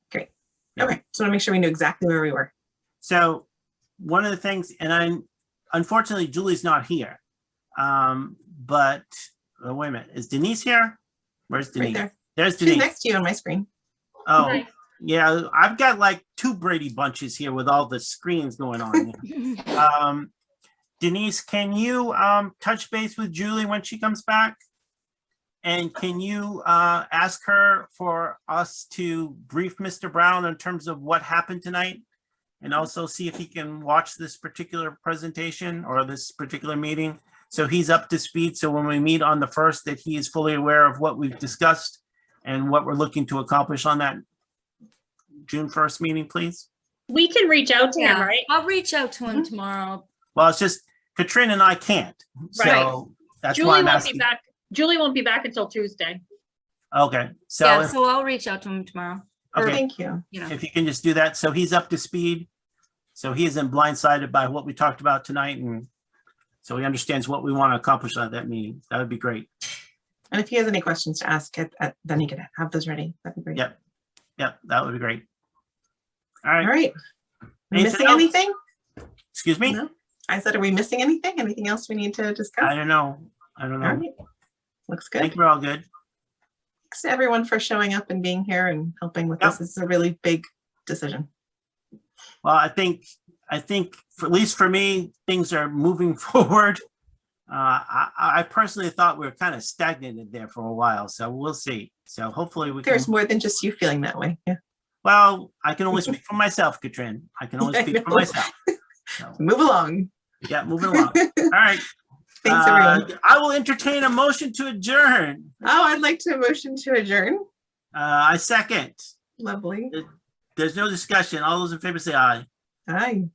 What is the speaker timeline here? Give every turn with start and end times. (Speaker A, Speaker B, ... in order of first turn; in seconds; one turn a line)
Speaker A: 0.1-2.5
Speaker B: 3.0-3.5
Speaker B: 4.0-7.2
Speaker B: 7.8-9.1
Speaker B: 9.6-11.0
Speaker B: 11.5-12.9
Speaker A: 11.8-13.7
Speaker B: 14.3-20.3
Speaker B: 21.0-24.6
Speaker B: 25.6-32.0
Speaker B: 32.6-44.2
Speaker B: 45.5-46.7
Speaker C: 47.1-48.5
Speaker D: 48.0-50.1
Speaker B: 50.4-54.2
Speaker C: 52.5-52.9
Speaker A: 52.6-52.9
Speaker C: 53.5-56.2
Speaker B: 56.9-58.0
Speaker D: 57.6-59.3
Speaker B: 59.5-59.8
Speaker A: 59.6-60.2
Speaker B: 60.5-62.5
Speaker B: 63.1-65.9
Speaker B: 66.6-69.5
Speaker A: 70.3-73.6
Speaker B: 74.4-75.2
Speaker B: 76.4-76.7
Speaker A: 76.6-76.9
Speaker A: 77.7-78.5
Speaker B: 77.7-78.3
Speaker B: 79.3-79.8
Speaker A: 79.7-82.7
Speaker B: 82.6-84.0
Speaker A: 83.8-84.1
Speaker A: 84.9-85.3
Speaker B: 85.2-85.8
Speaker A: 86.9-91.3
Speaker B: 92.4-96.8
Speaker B: 97.5-103.1
Speaker A: 102.8-104.6
Speaker B: 105.0-108.5
Speaker A: 107.6-108.4
Speaker A: 109.4-110.1
Speaker B: 110.5-111.9
Speaker A: 110.8-111.5
Speaker A: 112.4-113.1
Speaker B: 112.5-115.5
Speaker A: 115.6-117.4
Speaker B: 117.9-119.1
Speaker A: 119.4-119.9
Speaker B: 119.9-122.5
Speaker A: 122.9-123.3